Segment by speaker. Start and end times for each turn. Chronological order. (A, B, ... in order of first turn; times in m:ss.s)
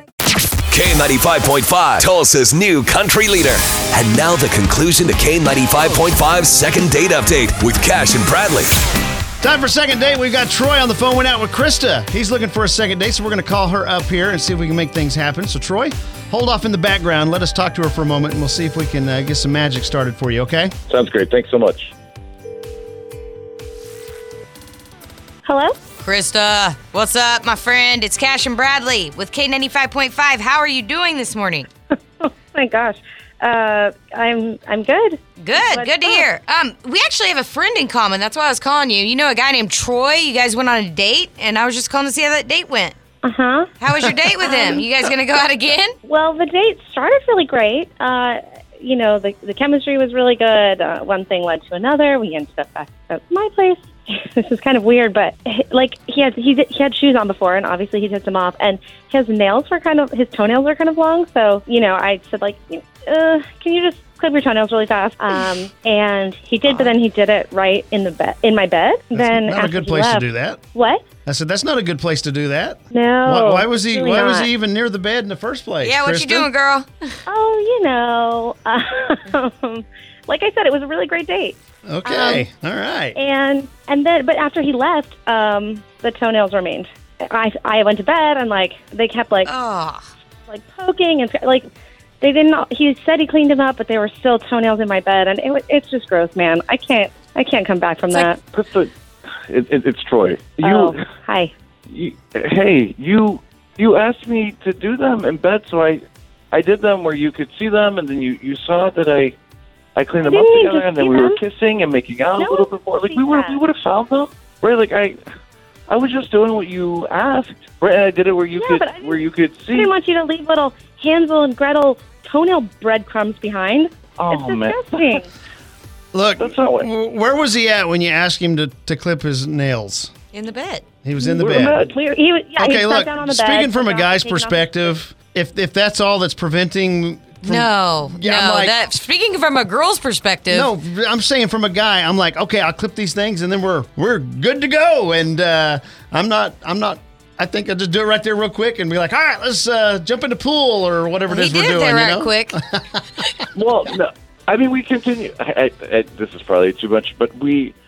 0:00.7-0:08.8 A
0:09.4-0:20.7 B
0:20.9-0:21.9 C
0:25.5-0:25.8 D
0:26.0-0:31.7 E
0:32.2-0:36.3 D
0:35.4-0:43.0 E
0:43.2-0:43.7 D
0:43.8-0:45.9 E
0:44.4-0:44.8 D
0:46.0-1:11.0 D
1:06.7-1:06.9 E
1:09.1-1:10.6 B
1:11.3-1:16.5 B
1:12.9-1:14.5 D
1:15.8-1:17.1 E
1:17.3-1:22.5 D
1:21.9-1:23.2 B
1:23.2-1:29.5 D
1:29.4-1:30.1 E
1:30.5-1:31.6 D
1:32.2-1:38.4 D
1:38.5-1:38.9 C
1:39.5-1:41.0 C
1:40.6-1:41.5 D
1:41.9-1:49.4 C
1:50.0-1:55.2 C
1:50.3-1:51.4 D
1:52.4-1:53.6 D
1:55.9-1:59.9 C
1:58.6-1:59.2 D
1:59.7-2:05.3 D
2:04.2-2:05.2 C
2:06.1-2:10.1 B
2:06.4-2:06.9 C
2:10.3-2:10.8 E
2:11.0-2:11.9 B
2:11.2-2:15.0 D
2:11.4-2:12.0 C
2:12.6-2:18.8 B
2:17.4-2:20.7 E
2:20.5-2:33.4 B
2:31.3-2:32.6 E
2:33.5-2:37.8 C